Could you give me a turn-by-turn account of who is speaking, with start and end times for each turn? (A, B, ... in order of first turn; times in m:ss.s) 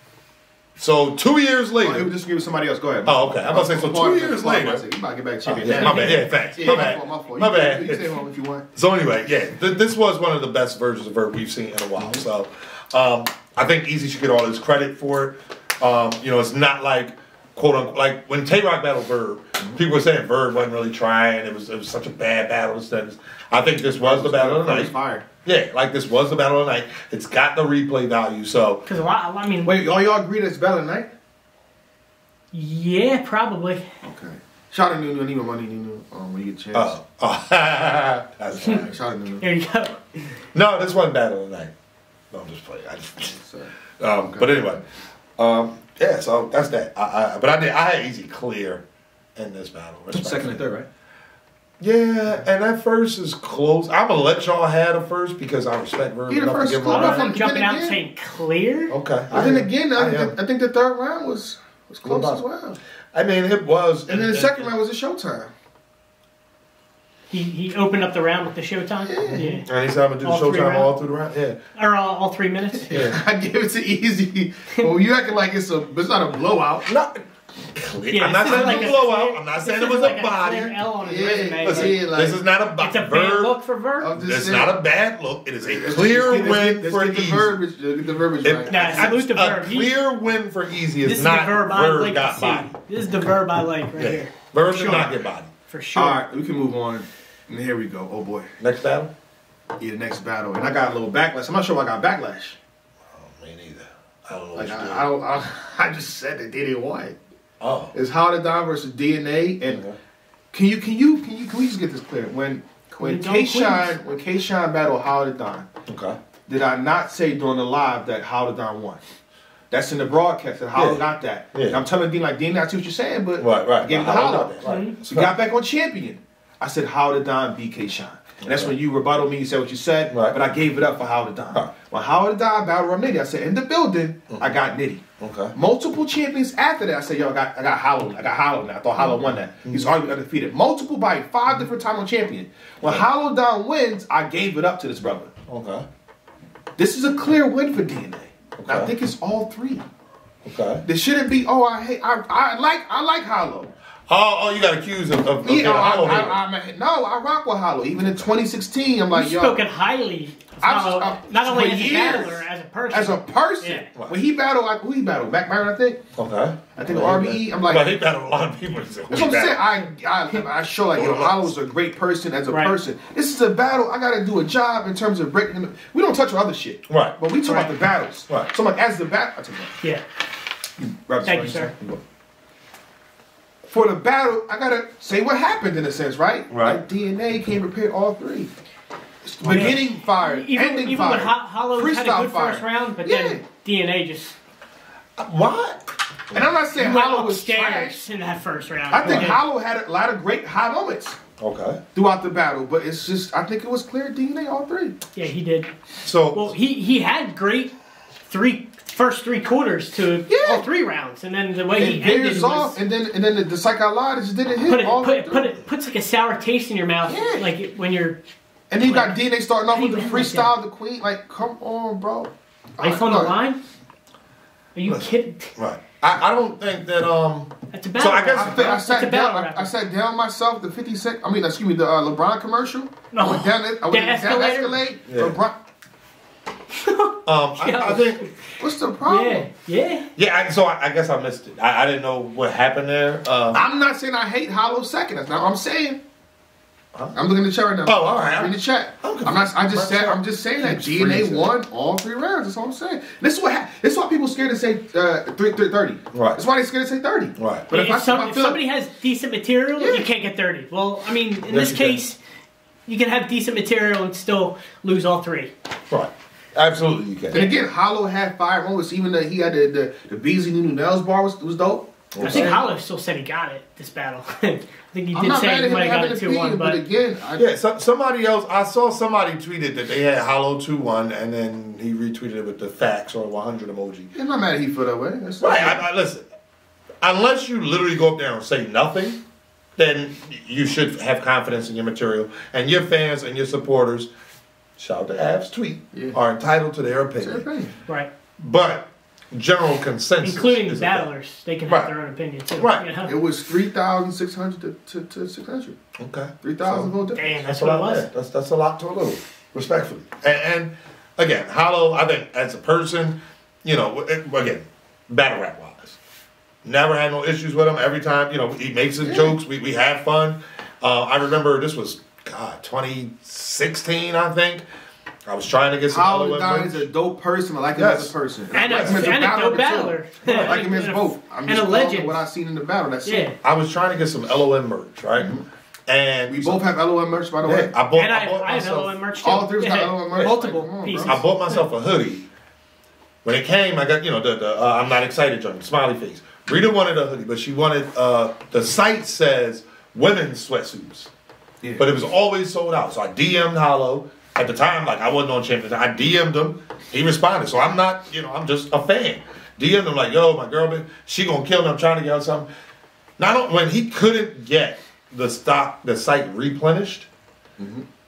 0:00.8-0:02.1 A
0:01.8-0:08.6 B
0:03.0-0:04.8 A
0:05.4-0:08.1 A
0:05.6-0:06.9 C
0:08.7-0:24.9 A
0:12.0-0:12.2 B
0:24.0-0:25.2 B
0:25.4-0:28.8 A
0:28.8-0:29.7 C
0:29.6-0:31.1 B
0:32.5-0:33.8 C
0:34.0-0:37.0 B
0:36.7-0:39.0 A
0:38.8-0:39.4 B
0:39.4-0:40.4 C
0:40.5-0:41.7 A
0:42.3-0:43.3 A
0:43.2-0:44.8 B
0:44.0-0:44.8 A
0:45.4-0:48.8 A
0:49.4-0:50.6 A
0:50.1-0:50.9 B
0:51.8-0:57.3 A
0:56.3-0:58.0 B
0:56.9-0:58.9 C
0:58.9-1:00.3 A
0:59.3-1:02.8 B
1:02.0-1:02.4 A
1:03.1-1:04.7 A
1:04.1-1:05.5 B
1:07.3-1:09.6 C
1:09.1-1:09.5 B
1:09.2-1:11.6 A
1:10.2-1:10.9 C
1:11.7-1:13.0 C
1:12.9-1:16.9 B
1:12.9-1:13.2 A
1:16.8-1:20.8 A
1:18.1-1:22.0 C
1:18.4-1:19.0 B
1:21.0-1:22.4 B
1:21.6-1:23.6 A
1:22.8-1:24.1 C
1:24.0-1:24.8 B
1:24.2-1:27.5 A
1:25.6-1:29.1 B
1:28.4-1:33.3 A
1:28.7-1:29.9 C
1:31.0-1:35.2 C
1:34.0-1:35.5 A
1:35.7-1:36.2 C
1:35.9-1:38.5 B
1:38.6-1:39.1 A
1:39.8-1:42.6 B
1:43.1-1:45.1 A
1:44.6-1:47.2 B
1:47.6-1:47.9 A
1:47.9-1:49.8 B
1:49.6-1:50.0 A
1:50.5-1:55.7 B
1:53.0-1:53.9 C
1:55.9-1:56.2 A
1:56.5-1:59.0 B
1:59.7-2:25.3 B
2:00.7-2:01.8 A
2:03.4-2:05.3 A
2:04.6-2:05.0 C
2:08.4-2:08.7 A
2:10.1-2:10.4 A
2:15.2-2:15.5 A
2:25.5-2:25.8 A
2:26.8-2:29.8 B
2:28.6-2:28.9 A
2:30.4-2:30.8 A
2:30.8-2:33.7 B
2:34.1-2:36.4 A
2:35.4-2:39.6 B
2:39.1-2:43.8 C
2:40.6-2:46.0 B
2:46.2-2:49.6 A
2:46.8-2:47.9 B
2:49.1-2:59.7 B
2:50.9-2:51.5 A
2:56.9-2:57.2 A
3:00.8-3:02.0 B
3:01.2-3:01.7 C
3:03.7-3:08.5 B
3:06.5-3:06.8 A
3:09.2-3:13.4 B
3:09.4-3:09.8 A
3:09.5-3:14.4 C
3:15.2-3:16.4 A
3:16.3-3:18.0 B
3:16.8-3:19.4 C
3:18.9-3:21.2 B
3:19.0-3:19.3 A
3:21.4-3:21.8 A
3:21.9-3:25.0 B
3:25.2-3:25.7 C
3:26.0-3:26.6 A
3:26.3-3:27.7 C
3:28.2-3:32.8 C
3:30.3-3:30.6 B
3:31.8-3:35.4 B
3:34.7-3:38.2 C
3:37.1-3:37.5 B
3:38.7-3:43.3 B
3:38.8-3:39.2 C
3:39.7-3:40.5 C
3:42.8-3:43.6 C
3:44.7-3:45.5 C
3:44.8-3:48.6 A
3:47.7-3:49.7 C
3:48.4-3:55.5 B
3:53.1-3:54.8 C
3:55.1-3:55.4 A
3:56.7-3:58.4 C
3:57.2-3:58.2 A
3:58.6-3:59.4 B
3:59.0-4:00.1 C
4:00.2-4:03.6 A
4:03.5-4:06.0 B
4:07.1-4:18.6 B
4:07.8-4:11.5 A
4:16.1-4:16.4 A
4:17.4-4:17.7 A
4:17.7-4:22.2 C
4:19.8-4:20.0 B
4:21.5-4:22.0 A
4:22.8-4:25.5 C
4:25.9-4:27.4 A
4:27.3-4:32.6 B
4:32.1-4:32.6 A
4:32.2-4:36.8 C
4:35.1-4:37.4 B
4:37.4-4:44.1 A
4:44.2-4:45.8 B
4:45.4-4:46.2 A
4:47.0-4:49.2 A
4:49.8-4:54.1 A
4:54.8-4:57.4 A
4:55.9-4:56.2 B
4:57.2-4:57.8 B
4:58.4-5:01.1 A
5:00.2-5:03.1 C
5:01.7-5:01.9 A
5:02.6-5:02.8 A
5:03.0-5:05.8 B
5:06.0-5:16.0 A
5:06.4-5:07.2 B
5:07.1-5:08.1 C
5:16.6-5:24.6 A
5:19.0-5:19.3 B
5:25.2-5:26.9 A
5:25.9-5:33.3 B
5:27.8-5:29.2 A
5:28.5-5:32.2 C
5:30.2-5:30.6 A
5:33.0-5:33.3 C
5:33.4-5:35.3 A
5:35.2-5:35.4 B
5:35.9-5:36.6 A
5:36.3-5:37.7 B
5:37.4-5:38.9 A
5:37.9-5:41.6 C
5:39.2-5:41.2 B
5:41.0-5:42.2 A
5:43.2-5:51.1 A
5:51.8-6:02.5 A
6:03.2-6:07.1 A
6:07.6-6:07.8 B